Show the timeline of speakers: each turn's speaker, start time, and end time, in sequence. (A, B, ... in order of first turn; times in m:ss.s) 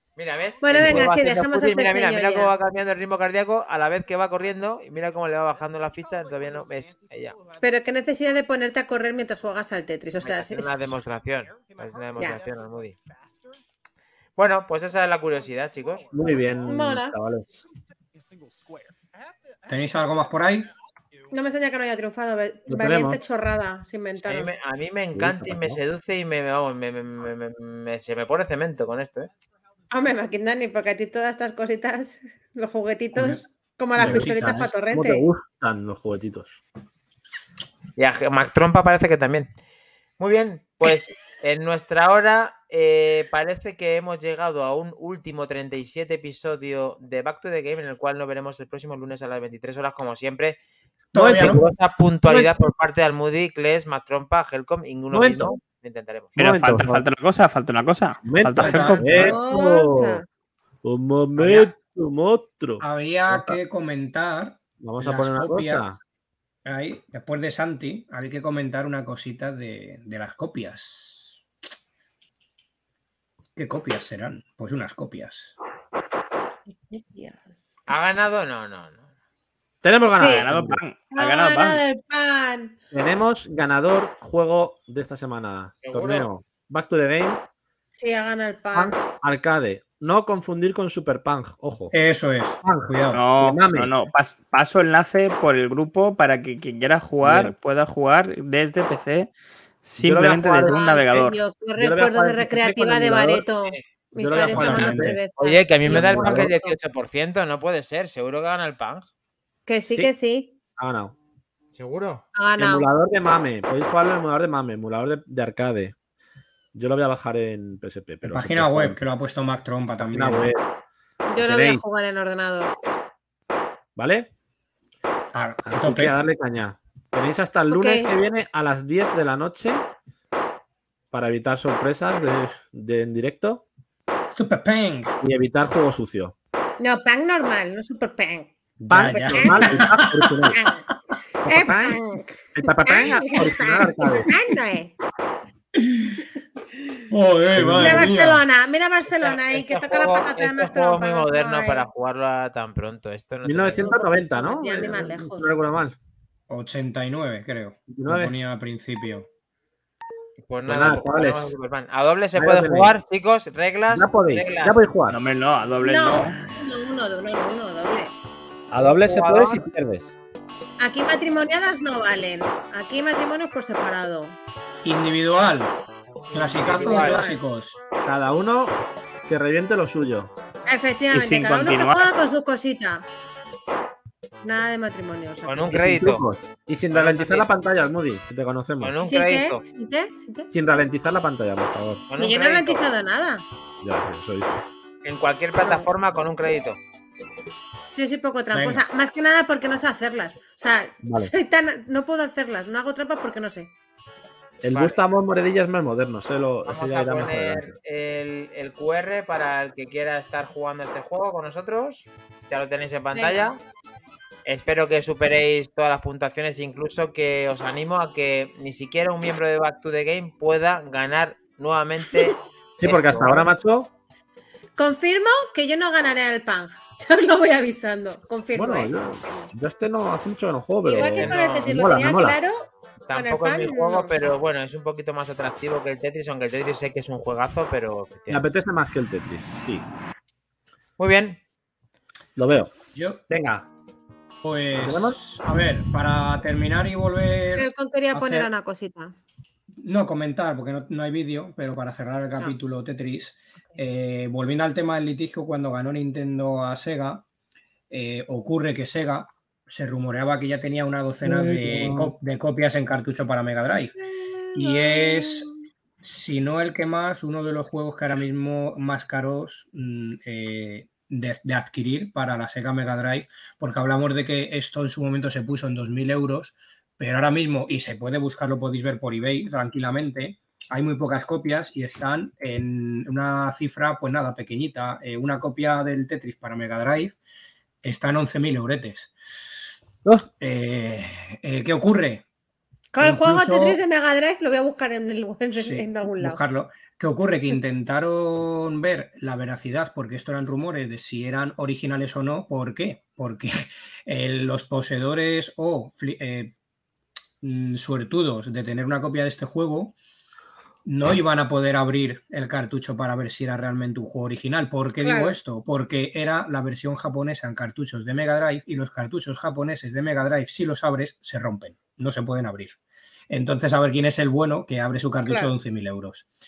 0:00.2-0:07.4 A
0:00.6-0:02.5 B
0:07.6-0:10.7 B
0:10.2-0:13.0 A
0:14.4-0:16.1 A
0:16.1-0:17.6 C
0:16.6-0:17.1 B
0:19.7-0:20.7 D
0:21.3-0:24.5 B
0:22.7-0:23.2 C
0:24.2-0:29.3 A
0:25.1-0:25.8 C
0:29.9-0:35.2 B
0:33.1-0:33.4 D
0:34.0-0:34.7 D
0:34.0-0:36.6 C
0:38.0-0:39.5 A
0:40.2-0:50.6 A
0:51.1-0:51.6 D
0:51.1-0:51.7 C
0:51.3-0:56.3 A
0:55.1-0:55.6 C
0:56.4-0:57.0 C
0:56.4-0:59.0 E
0:58.2-1:00.2 C
0:58.6-0:59.4 D
0:58.7-1:00.2 B
1:00.8-1:03.6 C
1:01.4-1:01.7 D
1:02.8-1:05.9 D
1:04.8-1:06.0 C
1:06.6-1:11.4 D
1:13.6-1:15.5 D
1:16.7-1:17.6 B
1:17.9-1:19.0 A
1:19.8-1:20.8 C
1:20.1-1:20.4 B
1:20.2-1:21.8 E
1:21.1-1:22.8 B
1:22.9-1:27.4 C
1:25.8-1:26.3 A
1:28.0-1:29.0 B
1:28.7-1:31.9 C
1:31.9-1:33.2 D
1:32.6-1:33.9 C
1:33.1-1:39.3 E
1:37.2-1:37.5 C
1:39.8-1:41.4 E
1:40.0-1:40.8 C
1:40.6-1:46.8 B
1:41.8-1:43.4 C
1:44.1-1:45.2 C
1:44.3-1:45.2 D
1:45.4-1:49.0 A
1:45.8-1:46.5 C
1:49.6-1:50.5 B
1:49.8-1:50.1 C
1:50.8-1:51.1 C
1:51.7-1:52.2 A
1:52.3-1:52.9 B
1:52.6-1:55.9 C
1:56.7-1:59.0 C
1:58.2-2:00.5 D
2:00.0-2:00.6 C
2:01.3-2:02.7 B
2:01.4-2:01.8 C
2:04.0-2:04.3 C
2:05.3-2:06.1 D
2:05.6-2:09.8 C
2:07.7-2:08.1 B
2:11.1-2:13.6 C
2:14.3-2:15.1 D
2:15.2-2:16.3 C
2:16.8-2:19.8 B
2:18.8-2:20.4 D
2:18.9-2:20.6 C
2:20.5-2:20.8 B
2:21.4-2:22.0 C
2:21.4-2:25.0 B
2:22.5-2:24.3 C
2:25.8-2:26.2 D
2:27.1-2:28.4 D
2:27.5-2:28.1 C
2:27.7-2:31.8 B
2:29.2-2:33.9 A
2:33.4-2:36.0 C
2:33.7-2:35.5 B
2:36.5-2:39.2 D
2:37.9-2:38.3 C
2:40.4-2:44.8 A
2:40.6-2:41.5 C
2:42.4-2:43.0 C
2:43.9-2:45.2 C
2:45.1-2:46.4 E
2:45.8-2:48.1 B
2:48.7-2:50.2 C
2:48.9-2:49.6 A
2:50.8-2:54.4 B
2:54.8-2:55.7 D
2:56.3-2:57.8 D
2:56.7-2:57.2 A
2:56.7-2:57.4 B
2:58.0-2:58.8 C
2:59.3-3:00.3 C
3:00.7-3:03.0 B
3:01.1-3:02.1 E
3:04.4-3:05.8 B
3:05.4-3:06.2 A
3:05.7-3:09.0 C
3:06.9-3:07.5 A
3:08.8-3:09.6 A
3:09.0-3:10.5 B
3:10.5-3:12.0 C
3:12.1-3:12.8 A
3:12.2-3:13.4 B
3:13.8-3:14.7 C
3:15.0-3:16.8 A
3:15.6-3:15.9 B
3:17.9-3:23.7 B
3:18.5-3:18.8 D
3:21.0-3:21.3 C
3:24.6-3:27.7 C
3:24.7-3:25.0 A
3:26.6-3:33.6 A
3:33.1-3:33.5 B
3:34.4-3:43.5 A
3:42.8-3:43.9 C
3:44.8-3:48.9 B
3:48.5-3:52.4 C
3:50.8-3:54.2 B
3:51.0-3:51.7 A
3:53.1-3:58.4 A
3:58.3-3:59.8 C
4:01.0-4:01.4 A
4:02.4-4:02.7 C
4:02.9-4:03.2 D
4:03.3-4:03.6 C
4:04.4-4:08.5 D
4:04.8-4:05.2 C
4:07.5-4:09.1 B
4:09.8-4:17.2 D
4:17.9-4:23.9 D
4:21.2-4:22.1 C
4:24.2-4:25.4 B
4:24.5-4:25.5 D
4:26.0-4:47.2 D
4:47.8-4:49.1 D
4:50.4-4:52.2 D
4:52.9-4:56.4 B
4:53.0-4:53.8 D
4:55.5-5:06.5 D
5:07.4-5:09.9 D
5:10.8-5:22.8 D
5:15.0-5:15.4 B
5:23.3-5:26.3 D
5:25.2-5:25.5 B